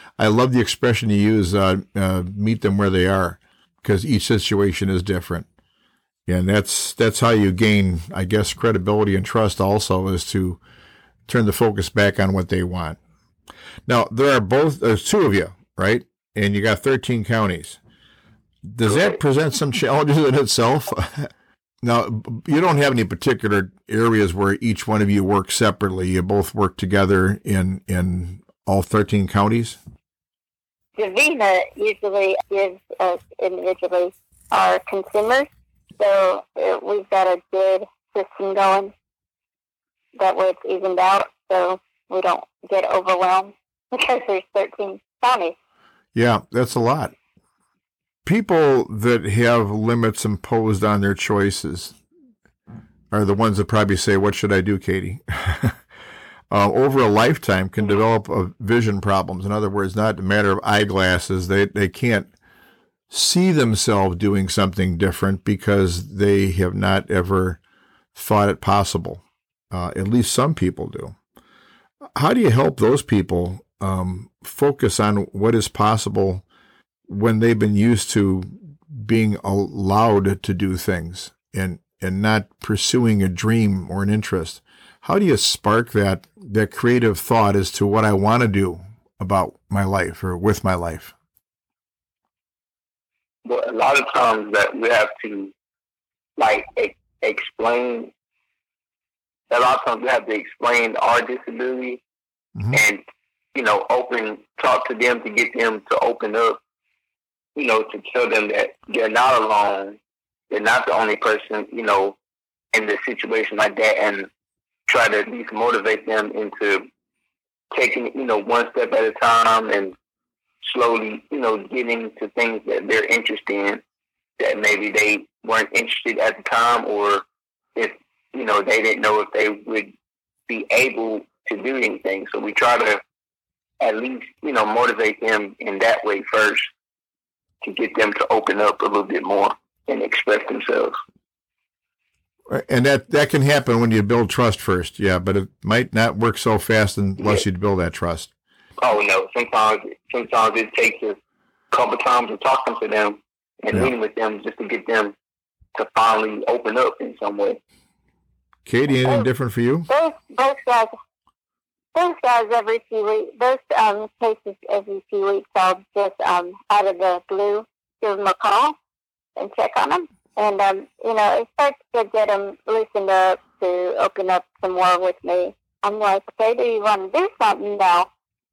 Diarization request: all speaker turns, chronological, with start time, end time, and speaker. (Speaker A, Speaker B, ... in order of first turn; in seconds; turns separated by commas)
Speaker A: 0.2-5.5, Speaker A: 6.3-10.6, Speaker A: 11.3-13.0, Speaker A: 13.9-17.8, Speaker A: 18.6-21.3, Speaker A: 21.8-29.8, Speaker B: 31.0-38.9, Speaker B: 40.1-45.5, Speaker A: 46.1-47.1, Speaker A: 48.2-51.9, Speaker A: 53.1-55.8, Speaker A: 56.5-62.3, Speaker A: 63.1-67.6, Speaker A: 68.1-71.1, Speaker A: 72.2-76.4, Speaker A: 77.1-91.1, Speaker C: 93.4-95.5, Speaker C: 96.4-98.1, Speaker C: 99.5-102.0, Speaker C: 102.7-103.0, Speaker C: 103.5-106.6, Speaker C: 107.5-110.0, Speaker C: 110.5-112.2, Speaker C: 112.7-114.3, Speaker C: 114.9-116.9, Speaker C: 117.7-119.9, Speaker C: 120.6-123.8, Speaker C: 124.4-127.2, Speaker C: 127.8-129.9, Speaker C: 130.5-133.0, Speaker C: 133.8-136.7, Speaker C: 137.6-140.9, Speaker A: 142.5-148.3, Speaker C: 148.8-151.2, Speaker C: 151.7-155.1, Speaker C: 155.8-157.6, Speaker A: 158.7-159.9, Speaker B: 159.9-160.9, Speaker B: 161.9-168.8, Speaker B: 169.3-178.1